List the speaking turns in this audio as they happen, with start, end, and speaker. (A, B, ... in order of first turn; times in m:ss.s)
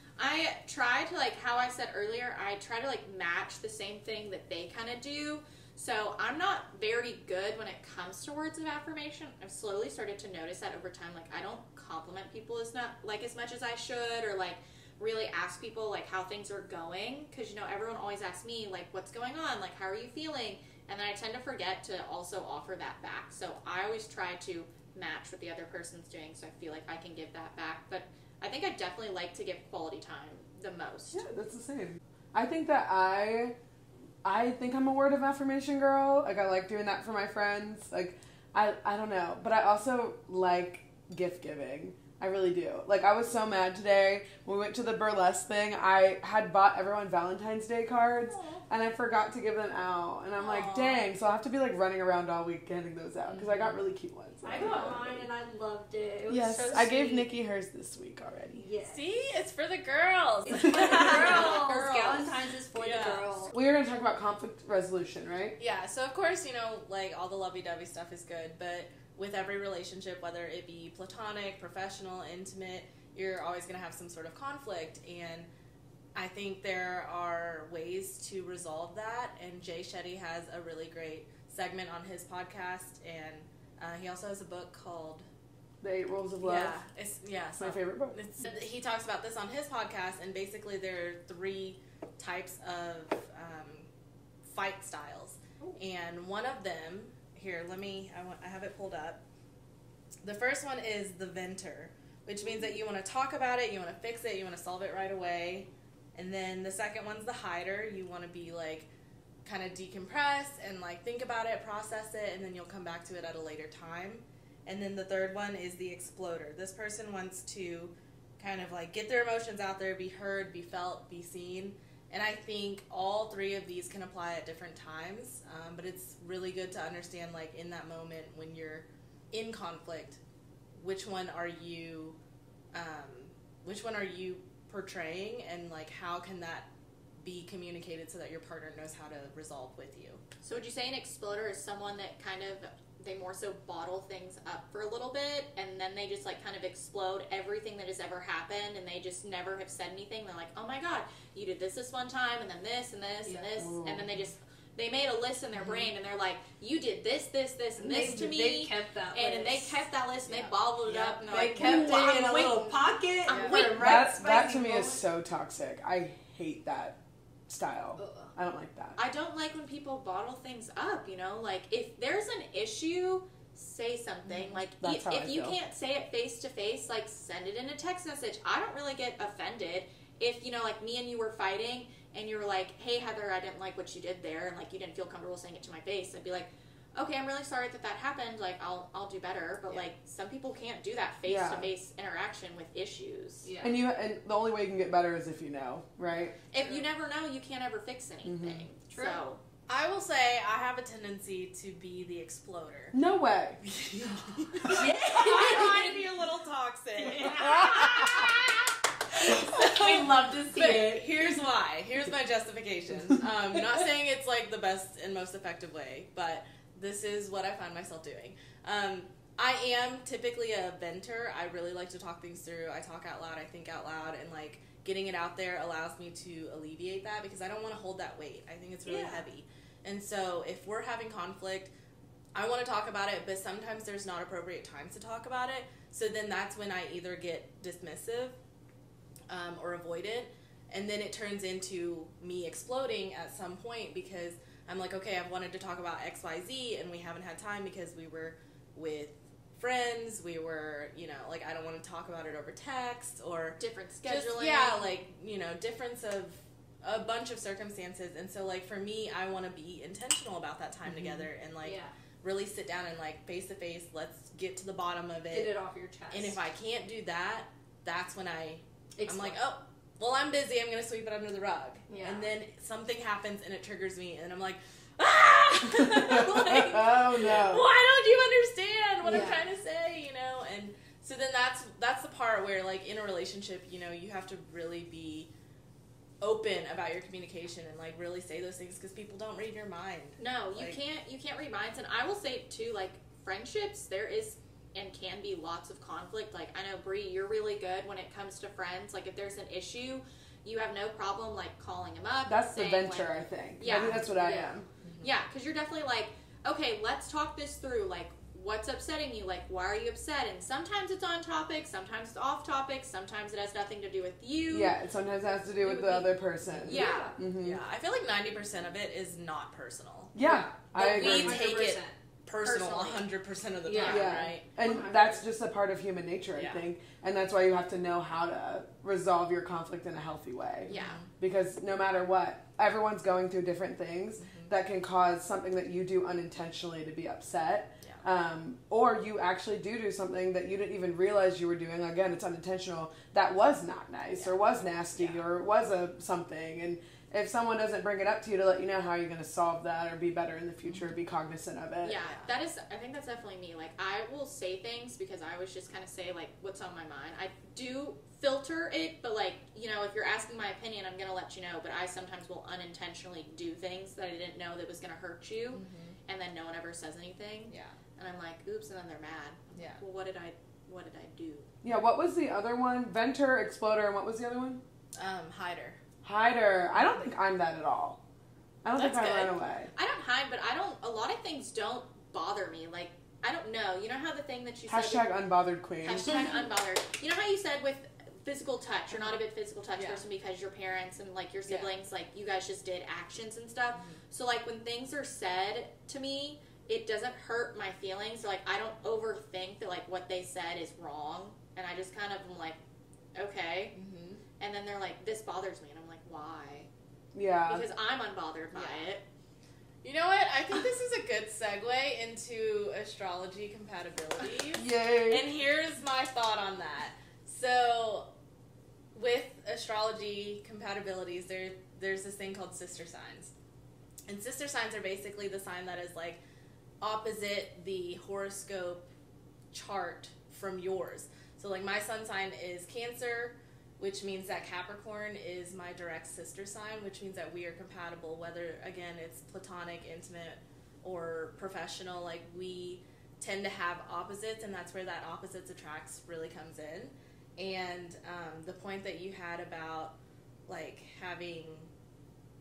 0:00.2-0:31.2 A
0:31.1-0:33.5 B
0:34.2-0:55.3 B
0:48.3-0:48.6 A
0:50.4-0:51.1 C
0:53.2-0:53.8 C
0:54.4-0:57.3 D
0:56.3-0:58.7 B
0:58.6-0:59.0 D
0:58.8-1:01.8 C
1:00.5-1:03.5 D
1:01.0-1:02.3 A
1:02.7-1:03.4 C
1:03.5-1:05.6 B
1:05.6-1:15.5 C
1:16.1-1:25.3 C
1:25.8-1:26.8 B
1:26.4-1:33.9 C
1:27.6-1:28.2 B
1:34.4-1:39.2 C
1:40.2-1:48.9 C
1:49.4-2:10.2 C
2:10.8-2:12.2 C
2:12.7-2:16.7 C
2:17.2-2:20.2 C
2:20.4-2:44.0 A
2:33.2-2:33.5 D
2:33.6-2:34.1 B
2:35.6-2:35.9 C
2:37.8-2:39.8 D
2:40.9-2:45.0 D
2:41.5-2:42.1 B
2:43.3-2:43.6 C
2:43.7-2:49.0 B
2:48.0-2:48.3 D
2:49.0-3:13.5 A
2:54.3-2:54.6 C
2:54.8-2:55.6 B
3:11.2-3:11.7 B
3:13.4-3:13.8 D
3:13.6-3:16.4 B
3:16.5-3:19.4 A
3:18.2-3:18.7 B
3:18.9-3:19.2 D
3:19.7-3:23.0 C
3:22.9-3:23.6 B
3:23.6-3:51.7 C
3:24.7-3:26.1 D
3:27.0-3:28.3 D
3:27.4-3:28.2 B
3:29.1-3:31.1 D
3:48.9-3:49.2 D
3:52.3-3:58.4 C
3:59.3-4:25.5 C
4:13.6-4:14.9 A
4:20.8-4:21.3 B
4:21.6-4:21.9 D
4:25.3-4:26.4 D
4:26.1-4:45.3 C
4:29.0-4:29.4 D
4:31.9-4:32.3 D
4:35.6-4:37.7 B
4:36.1-4:37.4 D
4:39.0-4:39.4 D
4:46.2-4:50.8 C
4:50.2-5:14.7 A
5:02.2-5:04.6 B
5:04.8-5:05.1 C
5:14.5-5:17.6 B
5:15.6-5:17.2 D
5:16.7-5:17.2 A
5:17.4-5:20.1 C
5:20.1-5:21.4 B
5:20.2-5:21.9 D
5:20.8-5:24.4 C
5:22.4-5:23.0 A
5:23.6-5:25.2 D
5:23.7-5:24.0 A
5:23.8-5:52.0 B
5:26.3-5:26.6 C
5:30.7-5:31.1 C
5:30.7-5:31.0 A
5:34.2-5:34.5 C
5:50.6-5:50.9 C
5:51.8-6:11.5 A
5:52.0-5:52.3 C
6:05.5-6:06.0 C
6:07.5-6:07.8 C
6:09.5-6:09.8 C
6:11.6-6:14.6 B
6:15.0-6:15.8 C
6:16.0-6:18.0 B
6:18.6-6:19.7 B
6:18.7-6:19.4 C
6:19.7-6:25.1 A
6:24.7-6:26.2 B
6:25.8-6:42.6 A
6:29.7-6:30.0 C
6:33.7-6:34.0 C
6:43.1-6:43.7 A
6:43.7-6:44.2 C
6:44.4-6:46.7 A
6:47.1-6:47.7 B
6:47.5-6:49.0 A
6:48.5-6:48.9 C
6:49.8-6:58.1 C
6:54.5-6:55.2 B
6:58.9-7:03.3 C
7:04.1-7:06.2 C
7:06.8-7:08.9 C
7:09.5-7:30.0 C
7:30.5-7:31.7 C